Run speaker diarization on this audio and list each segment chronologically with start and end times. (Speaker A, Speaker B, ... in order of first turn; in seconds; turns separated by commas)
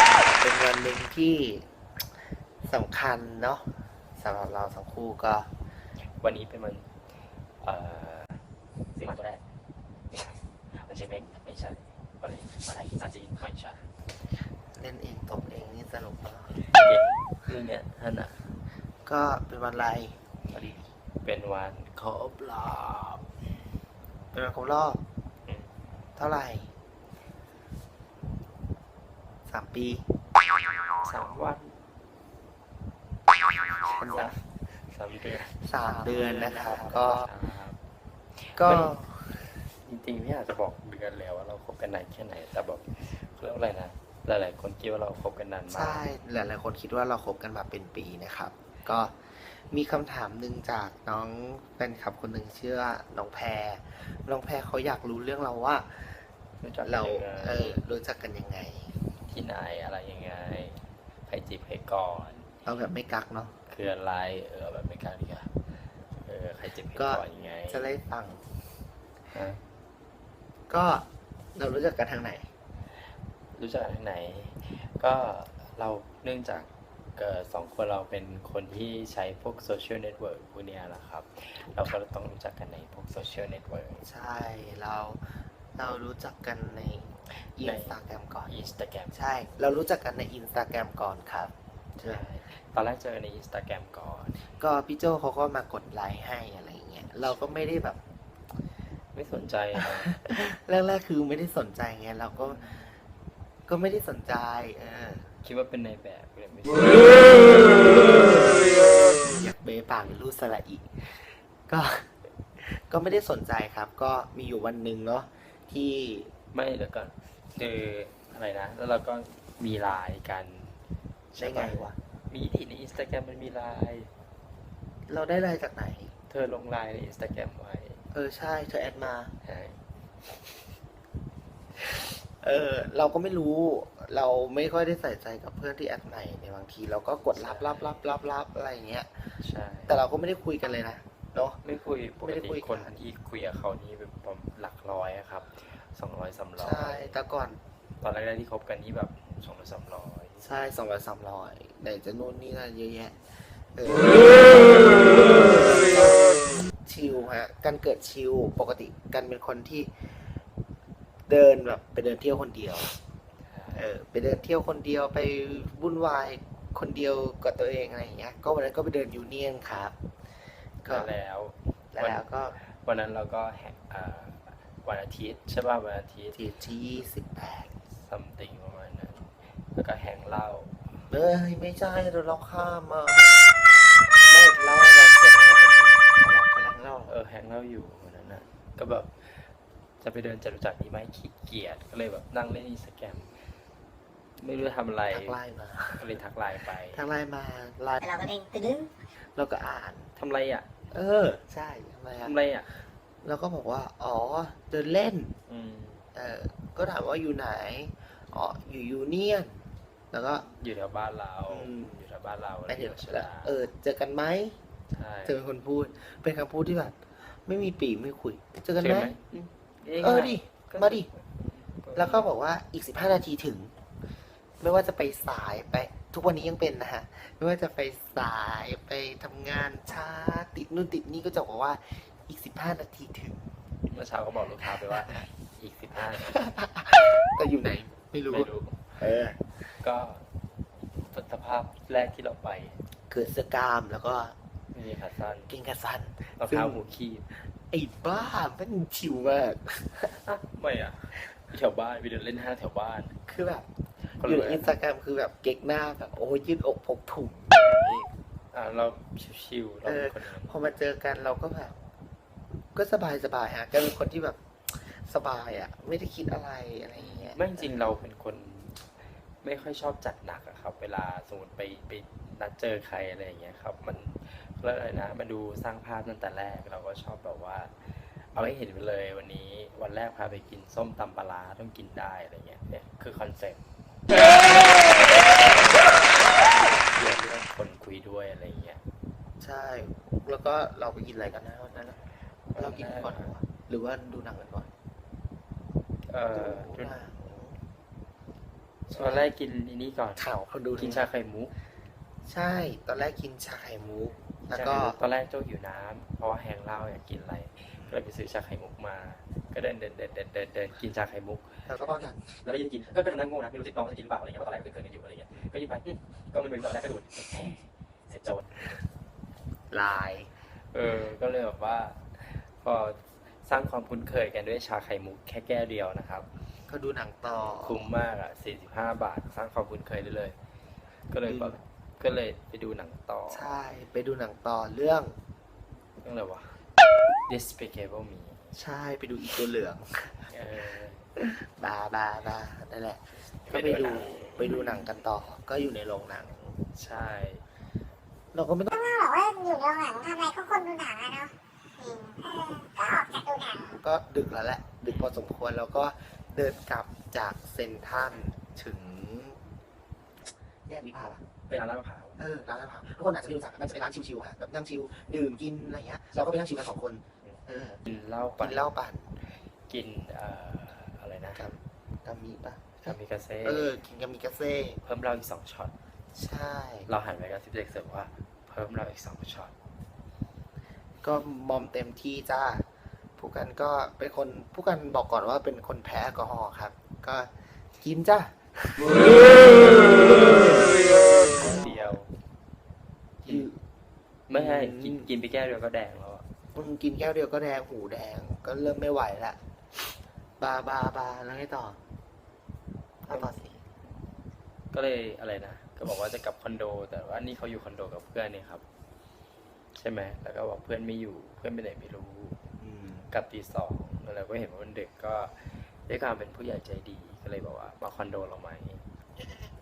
Speaker A: 0.3-5.5, Speaker B: 6.0-6.9, Speaker B: 7.6-8.4, Speaker B: 8.9-9.4, Speaker B: 10.1-13.8, Speaker A: 14.7-16.6, Speaker B: 16.6-18.4, Speaker A: 19.0-20.8, Speaker B: 20.5-23.3, Speaker A: 24.3-25.0, Speaker B: 25.5-25.9, Speaker A: 26.1-26.7, Speaker A: 29.5-30.1, Speaker B: 31.0-31.8, Speaker A: 33.9-34.4, Speaker B: 34.1-37.8, Speaker A: 35.6-37.3, Speaker B: 38.4-39.0, Speaker A: 38.5-39.4, Speaker B: 39.7-46.1, Speaker A: 45.7-56.2, Speaker B: 56.6-57.8, Speaker A: 56.8-59.0, Speaker B: 59.3-62.5, Speaker A: 62.6-63.5, Speaker B: 63.7-65.5, Speaker B: 66.2-67.9, Speaker A: 66.9-68.4, Speaker B: 69.3-69.6, Speaker A: 70.7-72.5, Speaker B: 73.5-84.1, Speaker A: 84.0-88.5, Speaker B: 87.6-89.2, Speaker A: 89.1-92.2, Speaker B: 92.0-94.6, Speaker A: 94.4-98.0, Speaker B: 99.1-100.1, Speaker A: 100.0-102.6, Speaker B: 102.4-102.9, Speaker A: 103.7-105.3, Speaker B: 105.4-108.5, Speaker A: 107.9-116.3, Speaker B: 116.5-120.8, Speaker B: 121.3-124.1, Speaker A: 121.4-122.0, Speaker A: 125.1-126.1, Speaker B: 126.3-128.0, Speaker A: 128.1-129.3, Speaker B: 129.4-129.8, Speaker A: 132.4-141.6, Speaker B: 137.3-138.0, Speaker B: 139.4-140.0, Speaker B: 141.6-147.2, Speaker A: 142.2-143.0, Speaker A: 146.6-147.6, Speaker B: 148.0-150.4, Speaker A: 150.4-160.1, Speaker A: 161.3-162.9, Speaker B: 163.4-163.9, Speaker A: 163.7-169.9, Speaker A: 170.8-171.1, Speaker B: 170.8-176.4, Speaker A: 171.9-172.6, Speaker A: 176.3-177.7, Speaker B: 177.9-181.1, Speaker A: 181.1-183.5, Speaker A: 184.3-185.4, Speaker B: 184.9-186.1, Speaker A: 186.0-187.1, Speaker B: 187.1-193.4, Speaker B: 194.4-195.4, Speaker A: 195.1-196.0, Speaker B: 195.9-197.1, Speaker A: 196.9-198.4, Speaker A: 199.0-200.1, Speaker B: 200.2-200.7, Speaker A: 200.9-202.3, Speaker B: 202.2-202.7, Speaker A: 203.2-205.3, Speaker B: 205.5-206.1, Speaker A: 206.1-210.5, Speaker B: 210.4-213.6, Speaker A: 211.5-212.0, Speaker A: 212.7-214.6, Speaker B: 214.9-215.4, Speaker A: 215.2-219.1, Speaker B: 218.8-222.3, Speaker A: 220.0-221.1, Speaker A: 221.9-223.7, Speaker A: 224.6-233.5, Speaker B: 233.9-236.5, Speaker A: 234.7-235.2, Speaker A: 236.3-239.8, Speaker B: 238.3-239.0, Speaker B: 239.8-240.3, Speaker B: 240.9-242.8, Speaker A: 243.1-244.3, Speaker B: 244.7-245.5, Speaker A: 245.5-246.8, Speaker B: 246.4-247.3, Speaker A: 247.7-250.2, Speaker B: 250.2-253.2, Speaker A: 253.3-258.1, Speaker B: 254.2-254.8, Speaker B: 258.5-260.6, Speaker A: 259.8-261.8, Speaker A: 262.7-267.9, Speaker B: 266.9-268.9, Speaker B: 269.4-288.8, Speaker A: 289.4-292.0, Speaker B: 292.5-293.3, Speaker A: 292.6-294.7, Speaker B: 296.1-297.0, Speaker A: 296.3-297.6, Speaker B: 298.9-300.2, Speaker A: 298.9-299.3, Speaker A: 300.2-301.0, Speaker B: 300.7-301.5, Speaker A: 302.2-305.0, Speaker B: 304.5-311.6, Speaker A: 311.7-312.4, Speaker B: 312.4-318.8, Speaker A: 319.7-320.3, Speaker B: 320.5-326.3, Speaker A: 326.7-327.9, Speaker B: 327.4-330.4, Speaker B: 331.1-333.6, Speaker A: 331.3-331.6, Speaker A: 333.3-335.1, Speaker B: 336.0-336.6, Speaker B: 337.2-338.6, Speaker A: 338.5-340.4, Speaker B: 340.3-341.1, Speaker A: 341.2-346.6, Speaker B: 343.4-344.9, Speaker B: 346.7-347.4, Speaker A: 348.3-348.7, Speaker C: 348.8-351.3, Speaker C: 351.8-352.4, Speaker A: 353.6-359.4, Speaker A: 360.7-361.2, Speaker B: 361.5-362.2, Speaker A: 362.2-367.8, Speaker B: 367.2-368.7, Speaker A: 368.4-369.2, Speaker B: 369.7-371.4, Speaker A: 371.4-374.8, Speaker B: 372.8-373.7, Speaker B: 374.8-375.7, Speaker A: 376.1-376.9, Speaker B: 376.9-379.5, Speaker A: 381.0-382.6, Speaker A: 383.2-391.9, Speaker B: 389.7-390.1, Speaker B: 390.7-392.1, Speaker A: 393.2-393.6, Speaker B: 394.3-396.3, Speaker A: 394.3-395.1, Speaker A: 396.5-399.4, Speaker A: 400.4-401.8, Speaker A: 403.0-403.6, Speaker B: 403.1-403.6, Speaker B: 404.7-408.6, Speaker B: 409.7-412.5, Speaker A: 412.6-413.1, Speaker B: 413.1-418.9